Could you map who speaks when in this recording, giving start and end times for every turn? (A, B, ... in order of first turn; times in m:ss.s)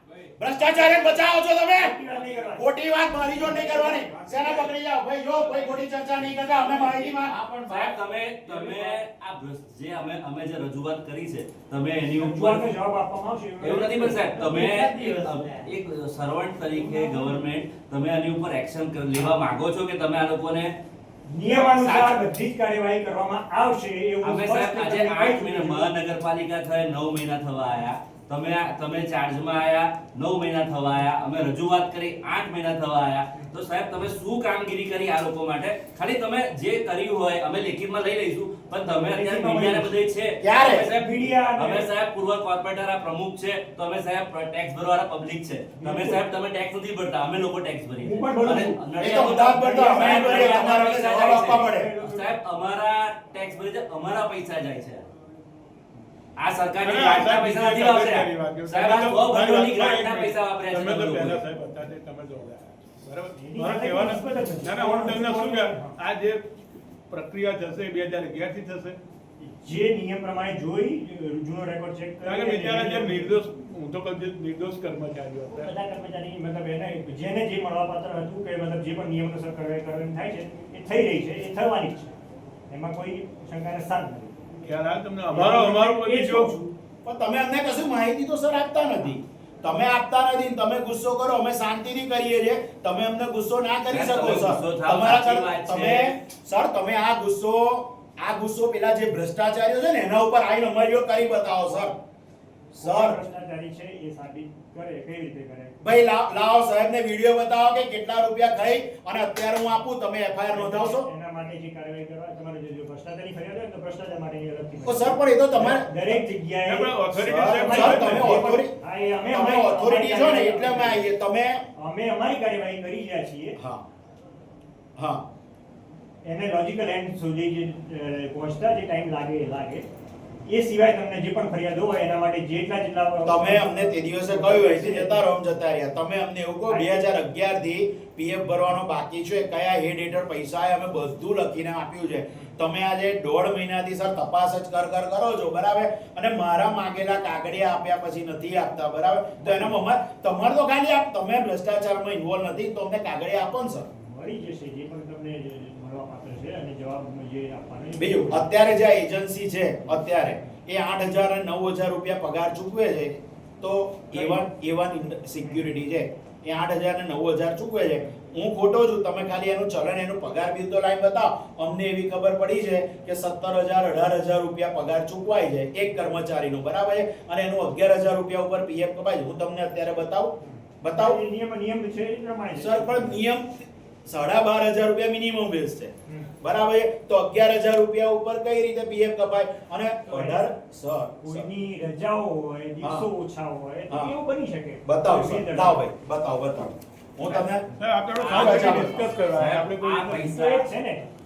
0:00.4-0:02.0 A
0:01.8-0:02.7 B
0:02.6-0:07.9 A
0:03.3-0:04.7 B
0:06.5-0:07.1 C
0:07.7-0:12.6 C
0:12.2-0:14.7 B
0:13.6-0:20.7 C
0:14.5-0:15.3 A
0:21.3-0:25.9 B
0:21.5-0:22.2 C
0:24.2-0:55.1 C
0:38.9-0:40.0 B
0:40.4-0:40.9 A
0:41.0-0:41.9 B
0:45.8-0:46.2 B
0:48.0-0:52.3 B
0:49.0-0:51.9 A
0:56.4-1:01.4 C
0:56.8-1:06.5 D
1:03.4-1:06.0 B
1:07.1-1:09.0 D
1:09.4-1:13.4 B
1:12.2-1:15.7 D
1:15.5-1:22.1 B
1:22.7-1:24.4 B
1:24.6-1:26.6 D
1:25.3-1:26.7 B
1:25.4-1:25.7 A
1:27.0-1:42.0 A
1:33.9-1:36.2 C
1:41.7-1:41.9 B
1:42.7-1:45.8 B
1:42.8-1:43.2 A
1:45.8-1:51.1 A
1:50.5-2:01.1 B
1:54.8-1:55.9 A
1:56.6-1:58.4 D
1:57.2-1:58.7 A
1:59.3-2:01.6 A
2:01.8-2:03.6 B
2:05.0-2:05.2 A
2:06.2-2:09.9 B
2:10.5-2:15.2 B
2:13.2-2:33.9 A
2:29.4-2:29.8 B
2:33.9-2:38.5 B
2:38.0-3:01.2 A
2:39.9-2:40.5 B
2:44.1-2:44.4 B
2:45.4-2:45.7 B
3:00.4-3:03.2 B
3:02.6-3:11.5 A
3:10.1-3:10.4 B
3:11.2-3:15.8 B
3:12.8-3:13.1 A
3:14.9-3:17.7 A
3:17.2-3:17.5 C
3:17.8-3:20.3 D
3:18.2-3:18.8 C
3:18.3-3:19.1 A
3:19.3-3:20.7 C
3:20.0-3:21.1 B